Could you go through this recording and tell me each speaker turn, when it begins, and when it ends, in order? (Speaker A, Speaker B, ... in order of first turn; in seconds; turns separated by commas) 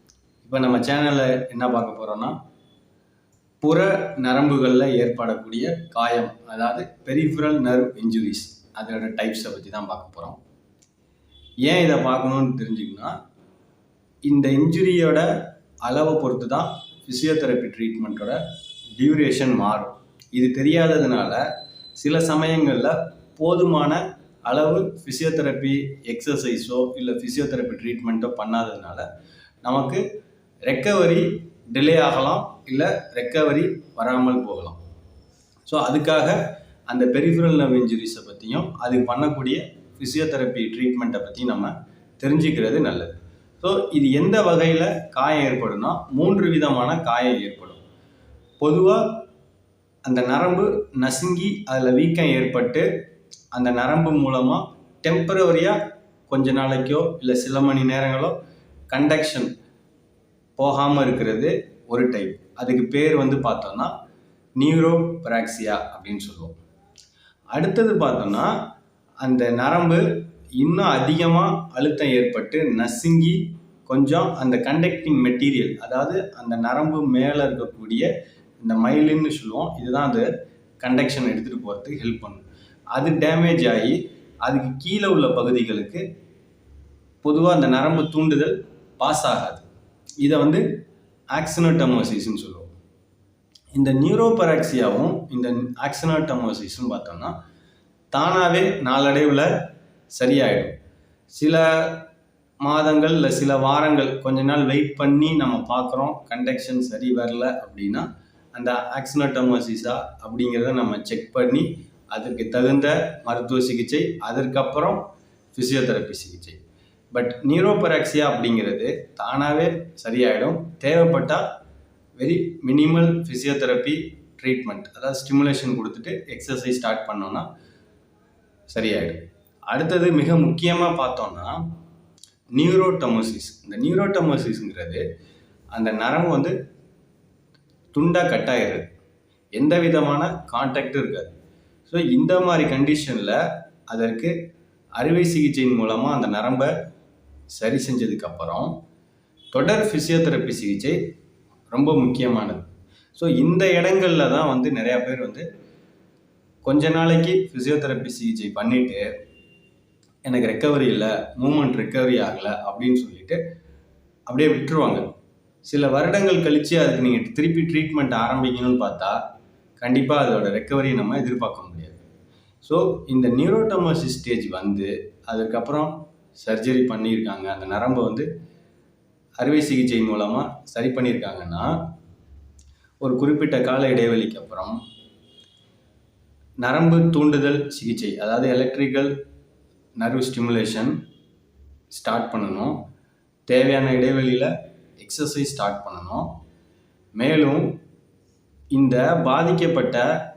Speaker A: 0.4-2.4, Speaker A: 3.6-10.4, Speaker A: 11.6-13.2, Speaker A: 14.2-15.3, Speaker A: 15.8-18.4, Speaker A: 19.0-21.4, Speaker A: 22.0-29.0, Speaker A: 29.6-30.0, Speaker A: 30.7-34.8, Speaker A: 35.7-47.8, Speaker A: 48.6-49.2, Speaker A: 50.0-52.9, Speaker A: 53.5-55.8, Speaker A: 56.3-58.3, Speaker A: 58.9-59.5, Speaker A: 60.6-63.9, Speaker A: 64.6-66.6, Speaker A: 67.5-68.6, Speaker A: 69.2-70.0, Speaker A: 70.6-78.1, Speaker A: 78.6-80.3, Speaker A: 80.8-86.0, Speaker A: 87.2-89.6, Speaker A: 90.2-90.6, Speaker A: 91.3-92.7, Speaker A: 93.7-97.3, Speaker A: 98.1-99.5, Speaker A: 100.1-100.7, Speaker A: 101.3-102.1, Speaker A: 102.6-116.6, Speaker A: 117.1-121.4, Speaker A: 122.2-127.5, Speaker A: 128.7-131.6, Speaker A: 132.5-135.0, Speaker A: 135.7-136.5, Speaker A: 137.9-138.9, Speaker A: 139.5-141.3, Speaker A: 141.9-144.3, Speaker A: 145.0-146.7, Speaker A: 147.5-148.7, Speaker A: 149.5-151.0, Speaker A: 151.7-155.4, Speaker A: 156.6-159.0, Speaker A: 160.2-163.4, Speaker A: 164.3-165.1, Speaker A: 165.6-169.2, Speaker A: 169.8-172.0, Speaker A: 172.6-178.3, Speaker A: 179.4-181.8, Speaker A: 183.0-184.8, Speaker A: 186.6-189.1, Speaker A: 190.0-190.9, Speaker A: 191.9-192.8, Speaker A: 193.5-196.3, Speaker A: 197.2-197.8, Speaker A: 198.7-200.1